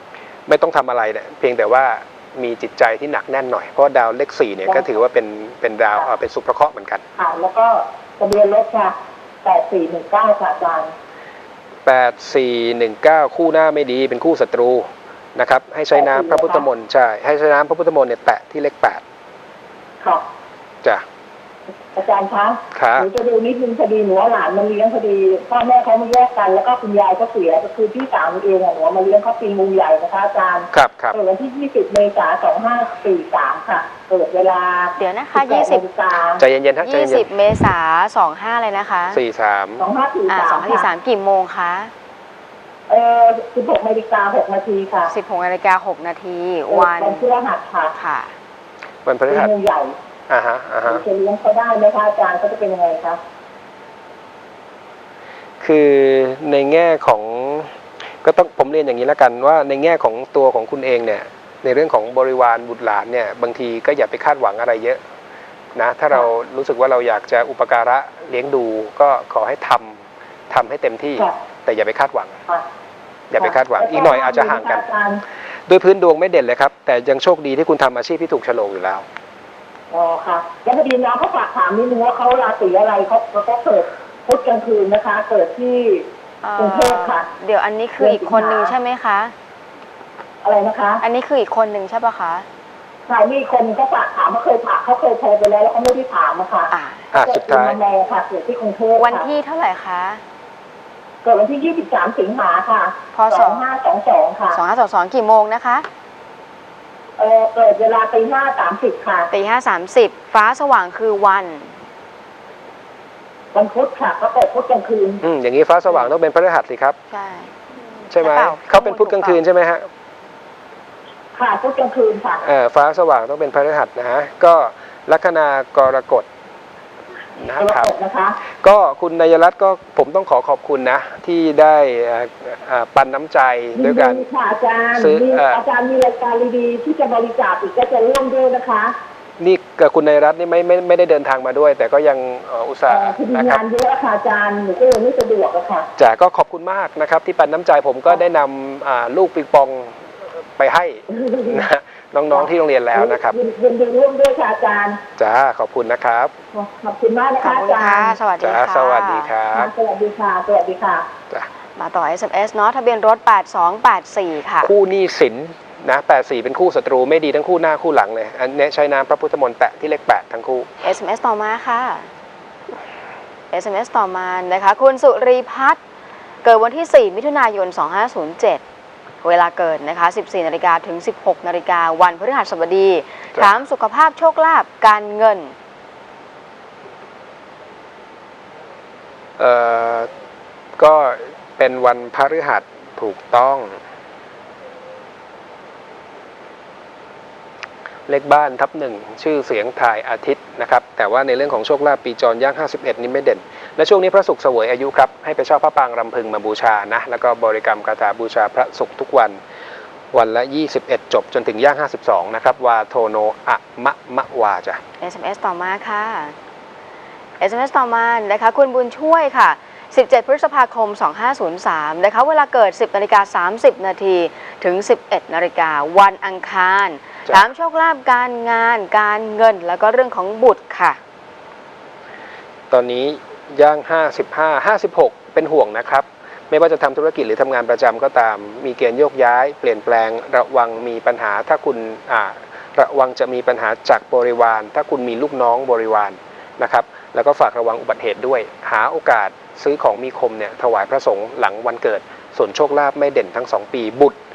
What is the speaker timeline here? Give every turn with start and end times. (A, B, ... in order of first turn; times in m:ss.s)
0:00.5-0:07.0 A
0:07.2-0:10.9 B
0:11.8-0:19.0 A
0:15.9-0:16.6 B
0:21.9-0:36.4 B
0:22.7-0:23.1 A
0:30.7-0:31.2 A
0:35.0-0:35.8 C
0:36.4-0:37.3 A
0:36.8-0:39.2 C
0:39.1-0:39.8 A
0:39.8-0:40.9 B
0:40.3-0:41.9 C
0:42.9-0:45.1 B
0:45.1-0:47.2 C
0:46.7-0:47.9 B
0:47.9-0:48.3 C
0:49.0-0:49.5 A
0:49.3-0:50.0 B
0:50.3-0:51.0 A
0:50.8-0:53.2 B
0:55.6-1:05.0 A
1:05.7-1:12.4 A
1:13.3-1:14.8 A
1:13.4-1:15.2 B
1:15.7-1:19.0 A
1:19.9-1:26.1 B
1:26.4-1:29.3 C
1:26.6-1:27.3 B
1:28.0-1:28.7 B
1:30.4-1:31.0 B
1:31.0-1:32.5 C
1:33.1-1:39.3 B
1:36.7-1:37.0 C
1:37.1-1:37.8 A
1:39.0-1:40.2 C
1:41.2-1:44.6 B
1:43.1-1:43.6 C
1:44.5-1:45.9 C
1:47.2-1:49.3 B
1:49.3-1:51.7 C
1:53.5-1:55.2 B
1:55.2-1:57.0 A
1:57.1-1:57.5 C
1:58.1-1:59.8 A
1:58.2-1:59.4 C
2:01.3-2:02.4 B
2:02.4-2:06.3 A
2:07.4-2:07.9 A
2:07.6-2:08.4 B
2:08.5-2:14.2 A
2:13.8-2:18.9 B
2:15.0-2:15.6 A
2:19.4-2:23.6 A
2:22.9-2:25.9 B
2:26.0-2:33.3 A
2:31.1-2:31.6 B
2:32.4-2:35.0 B
2:35.2-2:36.3 A
2:36.5-2:38.2 B
2:37.4-2:39.3 C
2:38.4-2:39.7 A
2:39.5-2:41.1 B
2:41.8-2:44.7 C
2:44.6-2:50.7 A
2:50.8-2:52.1 C
2:53.5-2:55.8 C
2:56.4-2:58.6 C
2:59.2-3:05.5 C
3:09.4-3:10.1 A
3:10.8-3:13.8 A
3:18.1-3:29.4 A
3:30.1-3:34.8 A
3:35.0-3:36.4 C
3:37.4-3:51.0 C
3:52.7-4:14.2 A